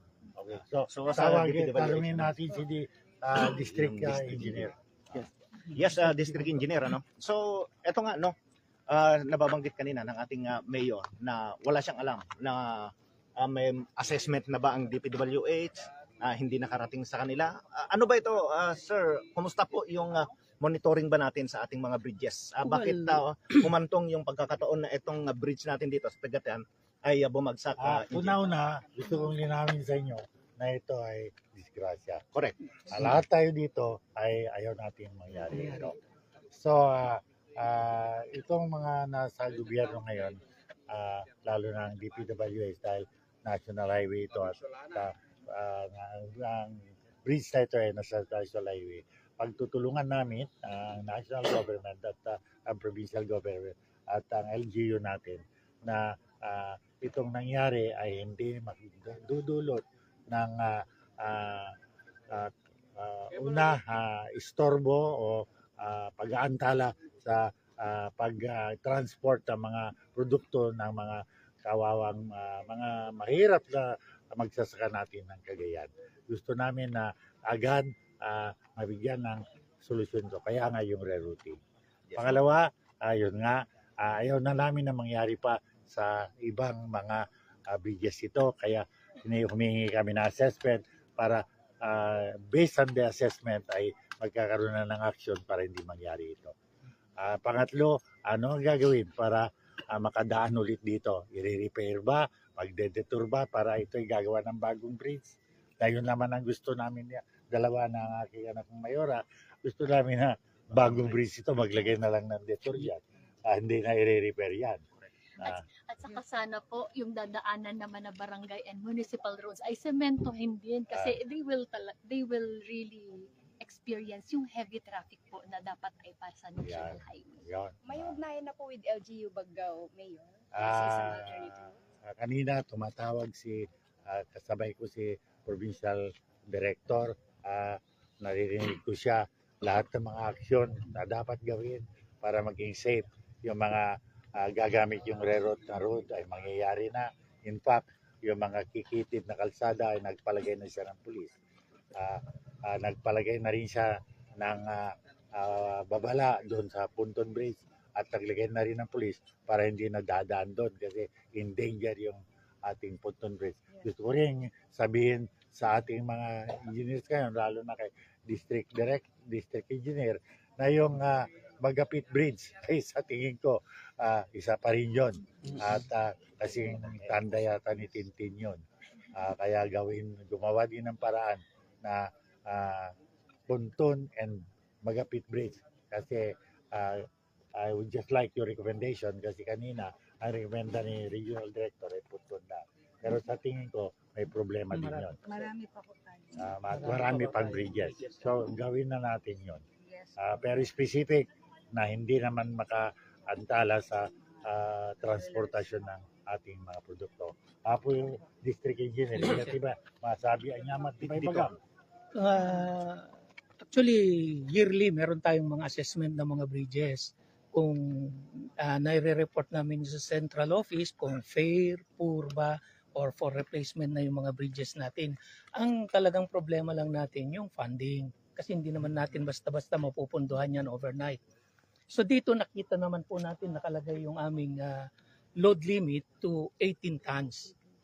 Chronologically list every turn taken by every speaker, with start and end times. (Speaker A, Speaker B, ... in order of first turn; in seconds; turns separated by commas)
Speaker A: 0.4-4.7, Speaker B: 0.9-2.4, Speaker B: 3.8-8.3, Speaker B: 8.9-28.4, Speaker A: 27.8-32.2, Speaker A: 32.9-36.0, Speaker A: 36.5-40.4, Speaker A: 40.9-61.7, Speaker A: 62.3-81.6, Speaker B: 82.1-82.4, Speaker A: 82.2-96.5, Speaker A: 97.2-114.8, Speaker B: 110.8-111.2, Speaker C: 115.4-127.5, Speaker A: 120.9-121.2, Speaker A: 126.6-128.2, Speaker D: 127.8-131.7, Speaker A: 130.5-151.3, Speaker A: 151.9-153.8, Speaker A: 154.4-178.6, Speaker A: 179.1-182.9, Speaker A: 183.5-195.2, Speaker A: 196.3-199.6, Speaker E: 196.9-197.6, Speaker A: 200.2-211.5, Speaker E: 209.2-209.6, Speaker B: 211.0-211.5, Speaker E: 212.2-231.2, Speaker E: 231.9-234.8, Speaker E: 235.4-237.5